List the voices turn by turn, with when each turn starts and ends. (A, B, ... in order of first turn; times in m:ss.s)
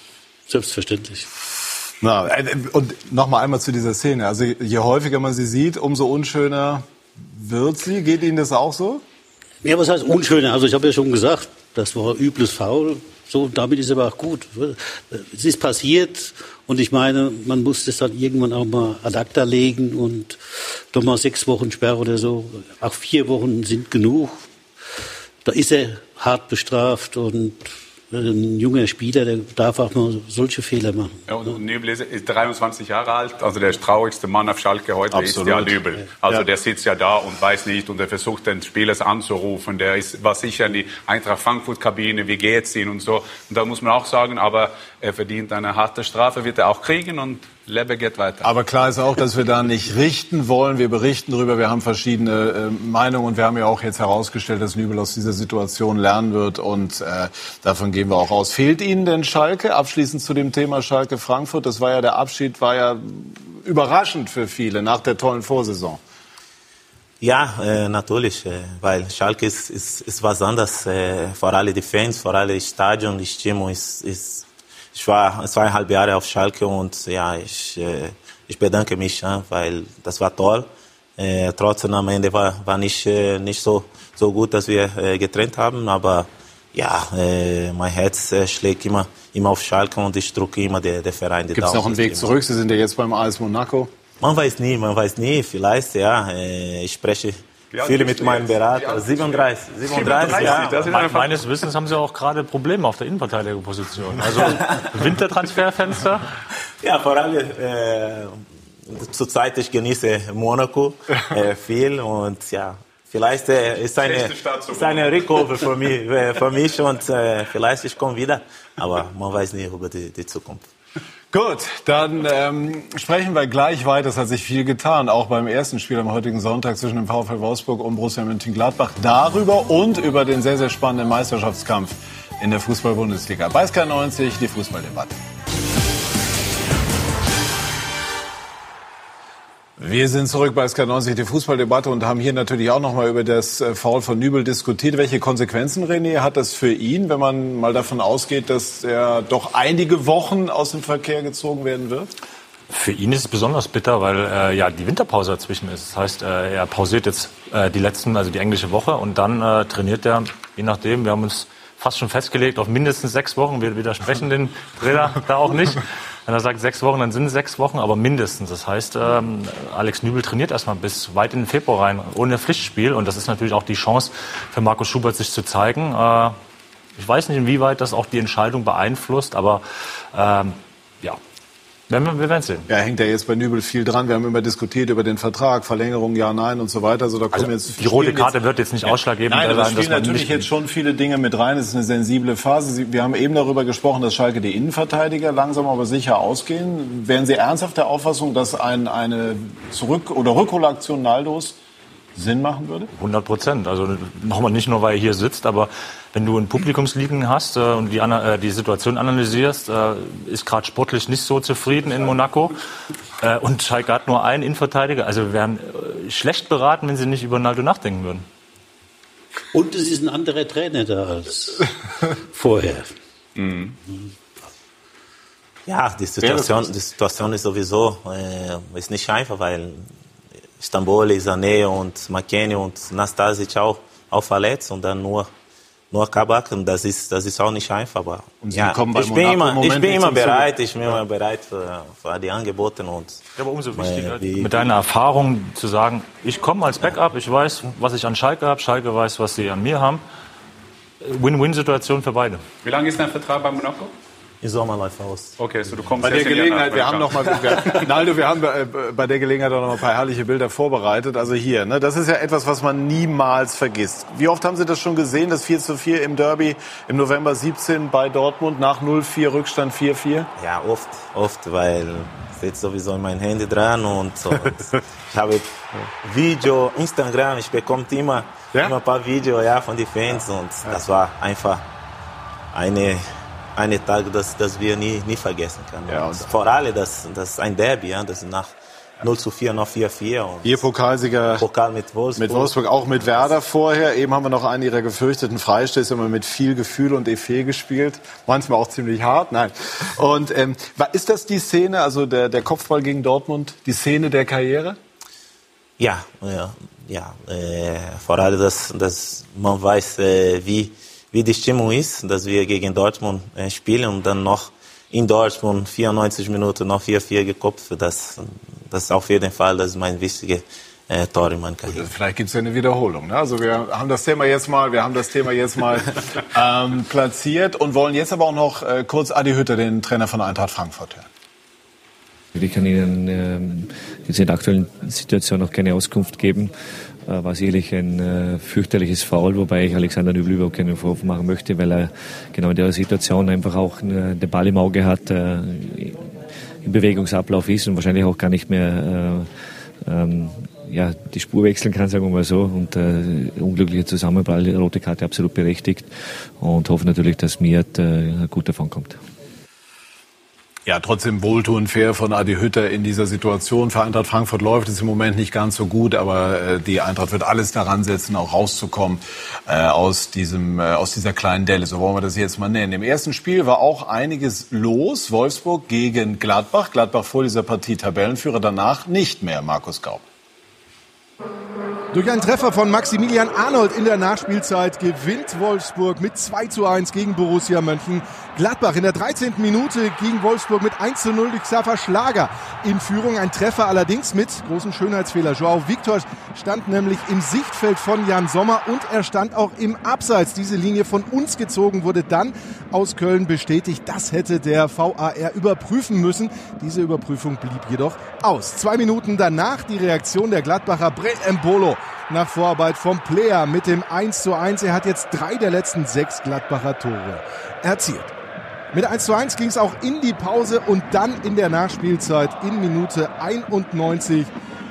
0:00.5-0:01.3 A
0:02.0-0:09.0 B
0:09.6-0:24.4 A
0:25.4-0:31.2 A
0:31.3-0:48.5 C
0:35.1-0:36.4 B
0:48.4-1:06.0 B
1:07.2-1:32.3 D
1:31.5-1:33.9 B
1:34.2-1:41.0 D
1:37.7-1:41.5 C
1:40.1-1:46.2 E
1:44.5-1:44.8 D
1:46.8-2:00.7 D
1:54.0-1:55.6 C
2:01.3-2:15.2 B
2:19.8-2:32.1 B
2:32.7-2:56.4 E
2:57.0-3:01.2 E
3:01.9-3:02.7 E
3:02.7-3:21.6 B
3:07.3-3:10.5 E
3:22.1-3:22.9 B
3:22.9-3:32.5 E
3:33.2-3:38.2 E
3:39.5-3:42.9 A
3:43.4-3:43.8 C
3:45.6-3:49.9 D
3:46.2-3:46.7 B
3:50.6-3:55.3 D
3:55.9-4:03.2 D
3:58.4-4:01.0 B
4:03.4-4:10.0 E
4:03.7-4:04.7 D
4:11.0-4:12.4 E
4:12.6-4:13.9 C
4:14.4-4:16.2 D
4:15.4-4:17.9 C
4:16.0-4:30.3 B
4:30.4-4:35.5 D
4:36.0-4:41.6 D
4:42.5-4:43.0 D
4:43.6-4:50.5 D
4:45.9-4:46.3 B
4:50.4-4:51.4 B
4:51.4-4:53.3 D
4:52.2-5:04.8 B
5:05.8-5:21.8 D
5:21.7-5:31.1 B
5:32.3-5:36.5 F
5:37.0-5:46.0 F
5:46.6-5:59.0 F
6:00.6-6:20.0 B
6:21.9-6:58.1 G
6:58.7-7:04.3 G